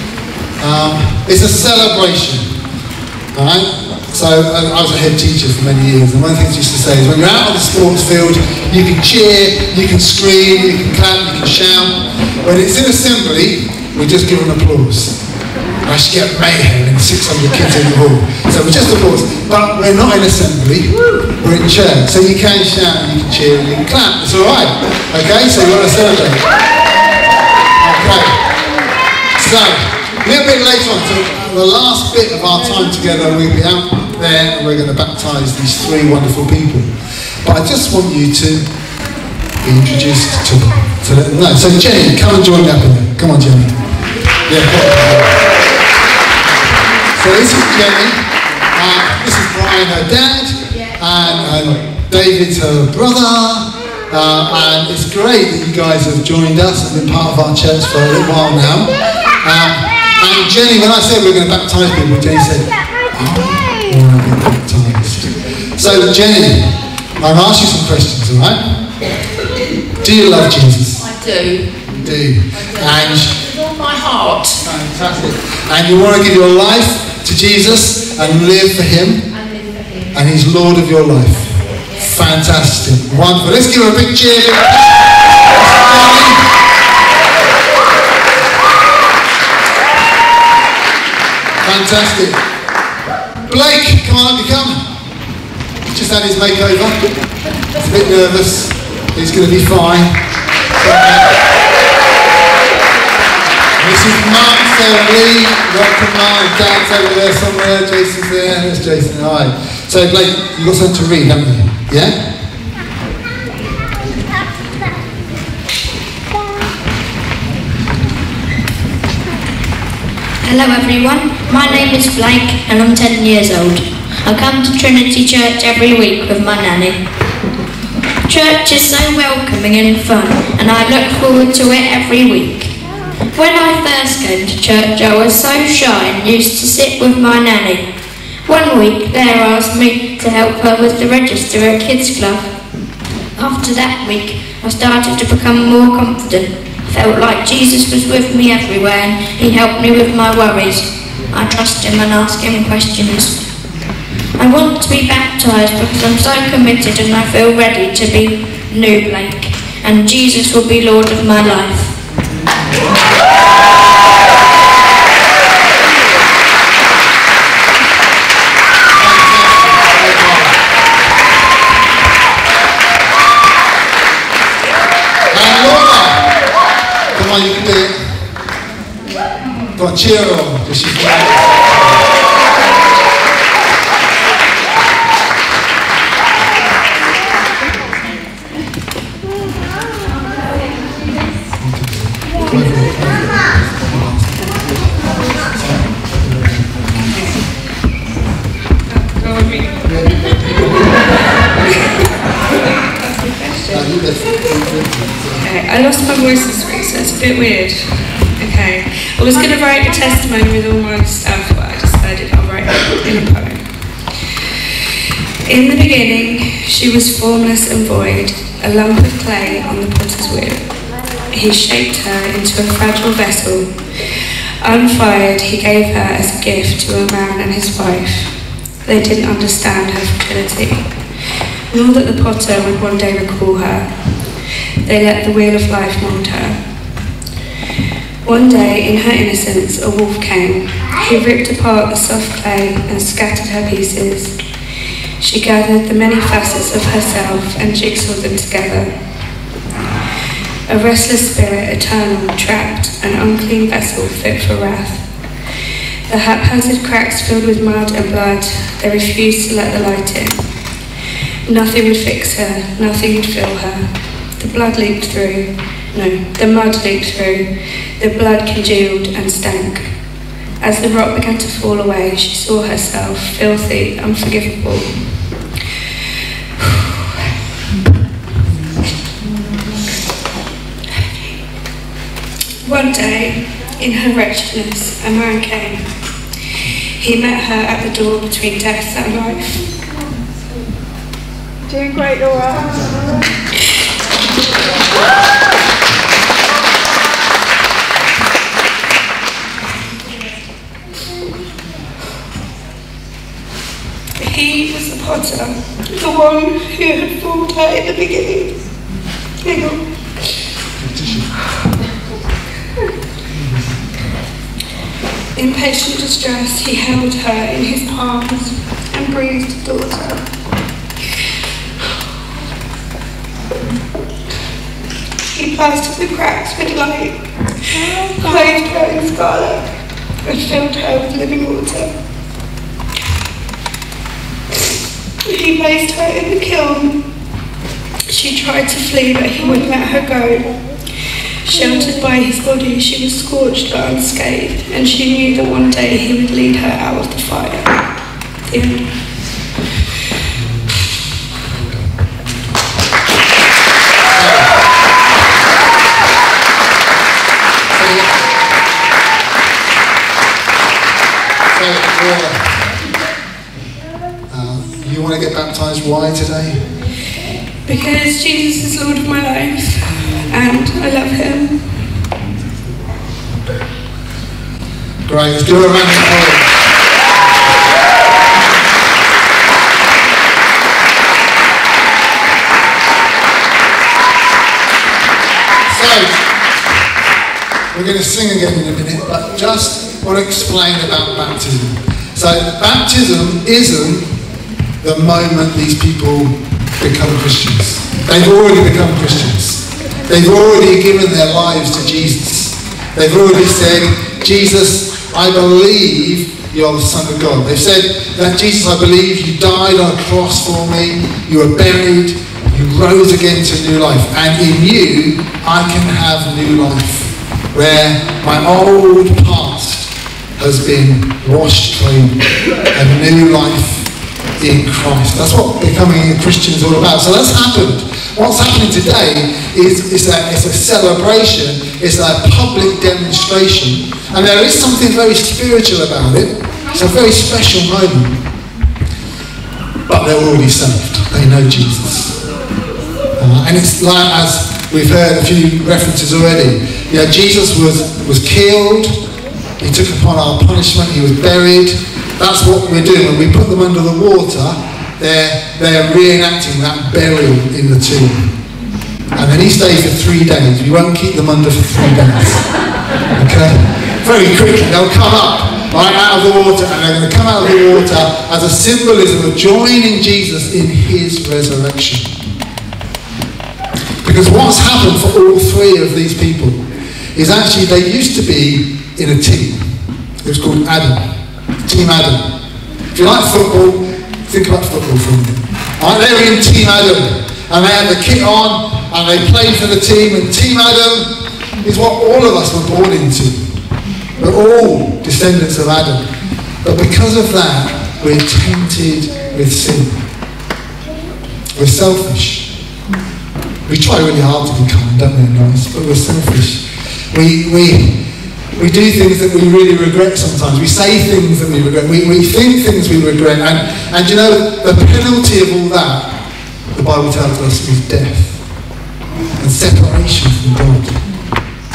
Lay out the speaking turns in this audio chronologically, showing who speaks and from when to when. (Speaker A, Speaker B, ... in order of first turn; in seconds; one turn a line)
Speaker A: 0.6-2.5
Speaker A: 3.3-15.2
Speaker A: 15.8-26.5
Speaker A: 27.8-28.4
Speaker A: 29.4-36.9
Speaker A: 37.4-38.6
Speaker A: 39.6-43.8
Speaker A: 44.5-45.5
Speaker A: 47.1-48.2
Speaker A: 48.7-68.8
Speaker A: 70.0-71.1
Speaker B: 71.0-71.8
Speaker A: 71.9-73.5
Speaker B: 73.4-74.6
Speaker A: 74.6-79.4
Speaker A: 80.1-86.5
Speaker A: 91.6-92.4
Speaker A: 93.5-94.8
Speaker A: 95.9-97.0
Speaker A: 97.8-100.2
Speaker A: 100.8-101.4
Speaker A: 103.8-112.2
Speaker C: 120.4-127.0
Speaker C: 128.3-132.7
Speaker C: 133.3-137.9
Speaker C: 138.5-142.5
Speaker C: 143.4-153.3
Speaker C: 154.4-161.9
Speaker A: 169.0-170.6
Speaker A: 175.3-176.4
Speaker A: 177.1-178.0
Speaker A: 179.8-181.8
Speaker A: 191.6-194.7
Speaker A: 195.5-196.8
Speaker D: 198.9-199.8
Speaker A: 199.9-201.1
Speaker D: 202.8-203.9
Speaker A: 203.7-205.4
Speaker D: 205.4-213.7
Speaker D: 215.4-220.7
Speaker D: 221.3-228.3
Speaker D: 228.8-230.9
Speaker D: 231.7-233.9
Speaker D: 234.8-236.6
Speaker D: 238.2-244.4
Speaker D: 245.2-248.9
Speaker D: 250.7-255.1
Speaker D: 256.1-260.4
Speaker D: 261.5-270.0
Speaker D: 270.6-275.0
Speaker D: 276.6-277.2
Speaker D: 280.9-281.4
Speaker D: 282.6-285.9
Speaker D: 286.6-289.7
Speaker A: 292.3-293.1
Speaker D: 304.2-308.7
Speaker D: 309.4-309.8
Speaker A: 310.8-311.4
Speaker A: 313.3-313.7
Speaker D: 315.4-320.2
Speaker D: 325.3-329.7
Speaker D: 330.2-331.9
Speaker D: 335.2-337.0
Speaker D: 338.1-340.6
Speaker D: 341.4-347.8
Speaker D: 348.4-348.9
Speaker A: 350.4-350.9
Speaker A: 351.5-352.5
Speaker A: 354.1-354.6
Speaker A: 357.7-358.2
Speaker A: 361.5-362.6
Speaker A: 364.3-366.7
Speaker D: 367.7-371.8
Speaker A: 375.1-376.5
Speaker A: 385.7-386.2
Speaker A: 387.7-394.1
Speaker A: 394.8-438.2
Speaker A: 439.9-442.2
Speaker A: 443.2-448.9
Speaker A: 449.6-458.3
Speaker A: 459.2-462.5
Speaker A: 463.1-472.2
Speaker A: 474.0-476.6
Speaker A: 477.1-479.7
Speaker A: 480.2-481.1
Speaker A: 481.6-482.2
Speaker A: 482.9-491.1
Speaker A: 491.6-493.4
Speaker A: 494.2-496.1
Speaker A: 496.6-500.0
Speaker A: 501.6-502.5
Speaker A: 503.7-516.1
Speaker A: 516.7-518.4
Speaker A: 519.4-521.0